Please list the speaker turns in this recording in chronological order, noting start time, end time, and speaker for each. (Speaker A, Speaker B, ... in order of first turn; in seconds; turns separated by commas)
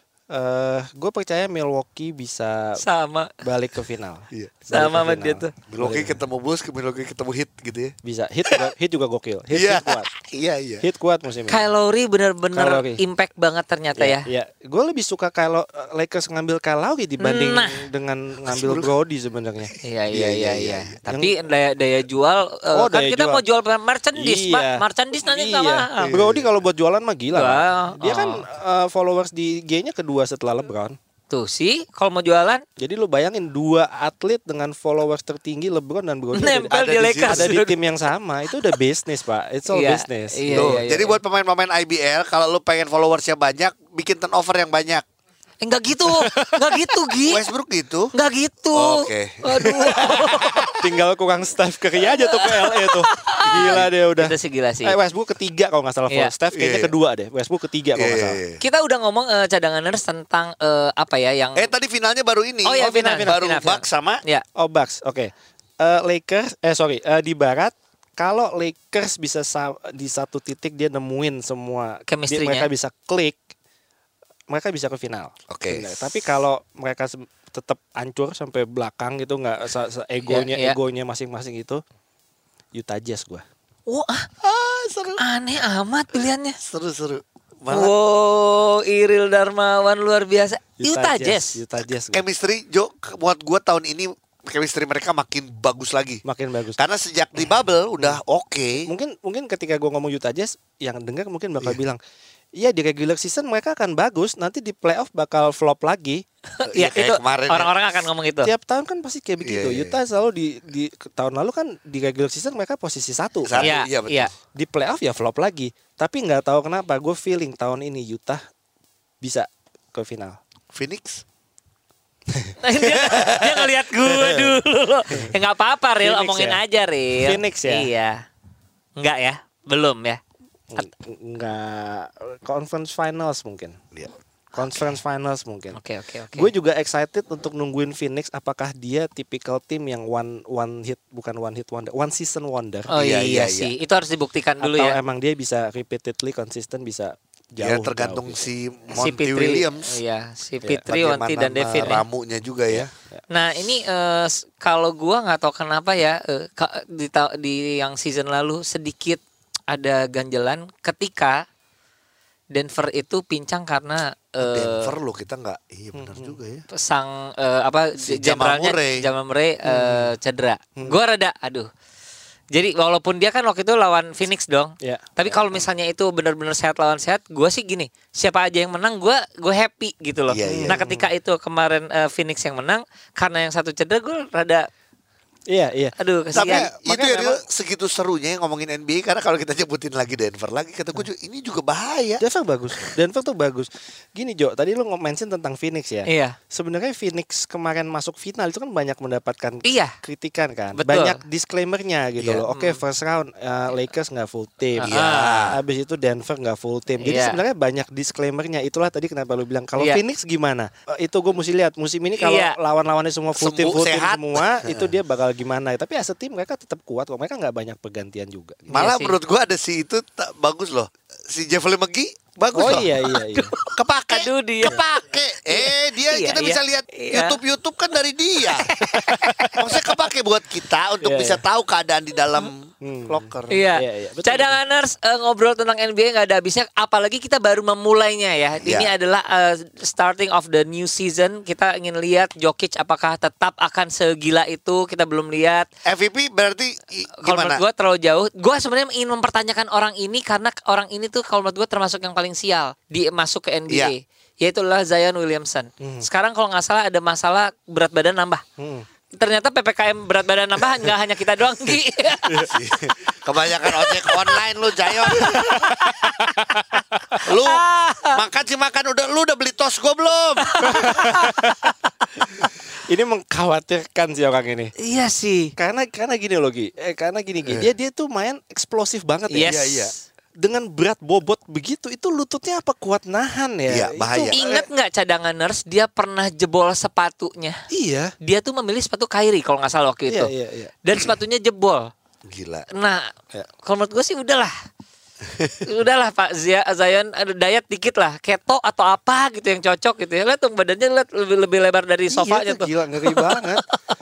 Speaker A: 0.3-2.8, Speaker B: 2.8-3.3, Speaker A: 3.4-6.2, Speaker B: 4.7-5.5, Speaker C: 5.7-7.9, Speaker A: 8.0-10.1, Speaker C: 9.5-10.8, Speaker A: 10.8-11.7, Speaker B: 11.5-14.2, Speaker A: 12.5-13.0, Speaker A: 14.0-19.7, Speaker B: 17.2-17.8, Speaker C: 18.4-18.9, Speaker C: 19.7-20.9, Speaker B: 19.8-26.1, Speaker A: 21.0-21.4, Speaker A: 22.7-23.4, Speaker A: 24.1-30.9, Speaker C: 25.9-26.4, Speaker B: 27.3-28.4, Speaker B: 31.3-32.6, Speaker A: 32.8-40.8, Speaker B: 36.3-37.8, Speaker C: 36.7-37.5, Speaker B: 39.7-41.2, Speaker C: 40.5-45.0, Speaker B: 45.6-47.4, Speaker A: 46.1-46.8, Speaker C: 47.2-48.1, Speaker B: 48.1-50.7, Speaker C: 48.7-50.7, Speaker A: 50.7-58.4, Speaker B: 52.0-55.0, Speaker C: 53.4-53.9, Speaker C: 56.5-56.9, Speaker C: 58.0-58.6, Speaker B: 58.6-61.6, Speaker C: 61.5-64.2, Speaker B: 62.6-64.4, Speaker A: 62.8-63.4, Speaker A: 64.5-73.4, Speaker B: 72.1-72.7, Speaker A: 74.5-81.8, Speaker C: 75.5-75.9, Speaker B: 80.2-80.8, Speaker A: 82.7-83.4, Speaker B: 83.9-84.3, Speaker C: 84.4-85.2, Speaker B: 85.2-86.6, Speaker C: 86.6-87.9, Speaker B: 87.7-91.6, Speaker A: 90.8-92.2, Speaker C: 92.1-96.2, Speaker A: 96.2-96.8, Speaker C: 96.8-98.9, Speaker A: 98.8-102.0, Speaker A: 102.6-106.2, Speaker B: 106.6-108.5, Speaker C: 106.7-107.7, Speaker A: 108.4-113.7, Speaker C: 109.4-110.0, Speaker C: 113.4-114.3, Speaker B: 113.6-114.3, Speaker A: 114.5-118.4, Speaker A: 119.2-120.4, Speaker C: 120.7-121.2, Speaker B: 122.6-128.2, Speaker C: 122.8-123.7, Speaker A: 126.0-126.6, Speaker A: 127.2-127.9, Speaker B: 129.0-130.2, Speaker A: 130.7-133.8, Speaker A: 134.5-135.8, Speaker B: 135.8-136.5, Speaker A: 136.3-142.9, Speaker B: 142.9-145.0, Speaker C: 142.9-143.7, Speaker A: 144.6-148.5, Speaker C: 147.6-149.9, Speaker B: 148.9-152.0, Speaker C: 150.9-152.9, Speaker A: 152.7-153.2, Speaker B: 153.3-161.4, Speaker B: 162.5-164.9, Speaker C: 164.4-166.6, Speaker A: 165.9-166.3, Speaker B: 166.7-171.7, Speaker C: 168.0-169.1, Speaker A: 169.6-170.1, Speaker B: 172.5-184.7, Speaker A: 174.8-175.6, Speaker C: 180.3-180.8, Speaker A: 180.5-181.1, Speaker A: 185.5-187.4, Speaker B: 186.0-186.7, Speaker C: 186.3-192.2, Speaker A: 192.2-218.7, Speaker B: 196.1-196.4, Speaker B: 199.6-199.9, Speaker B: 200.8-201.2, Speaker B: 202.2-202.8, Speaker B: 204.8-205.5, Speaker C: 204.8-205.6, Speaker B: 207.0-207.4, Speaker B: 212.2-212.5, Speaker C: 213.3-214.9, Speaker B: 218.7-219.2, Speaker C: 218.7-223.0, Speaker A: 222.5-223.5, Speaker B: 222.6-224.8, Speaker C: 223.7-228.7, Speaker B: 225.5-227.4, Speaker B: 228.5-229.8, Speaker A: 228.9-229.6, Speaker C: 229.6-233.6, Speaker A: 231.0-231.4, Speaker A: 232.8-233.2, Speaker B: 233.5-245.7, Speaker A: 233.7-234.6, Speaker C: 238.6-238.9, Speaker C: 245.8-247.6, Speaker B: 247.2-258.4, Speaker A: 255.8-256.1, Speaker A: 258.6-258.9, Speaker B: 259.1-262.4, Speaker A: 262.2-262.5, Speaker C: 262.5-265.4, Speaker B: 263.9-264.4, Speaker B: 265.1-266.6, Speaker A: 265.2-267.2, Speaker B: 267.1-268.2, Speaker C: 267.2-270.9, Speaker B: 270.4-271.5, Speaker A: 270.6-271.7, Speaker A: 272.4-274.7, Speaker B: 274.8-275.5, Speaker A: 275.6-279.5, Speaker B: 279.3-279.9, Speaker C: 279.4-279.9, Speaker A: 280.4-284.5, Speaker C: 283.7-284.6, Speaker B: 284.3-287.6, Speaker A: 287.7-288.1, Speaker B: 288.2-290.3, Speaker A: 290.1-290.7, Speaker B: 290.8-291.9, Speaker C: 292.2-292.7, Speaker B: 292.7-293.1, Speaker B: 293.6-294.5, Speaker B: 295.6-303.2, Speaker A: 302.1-303.6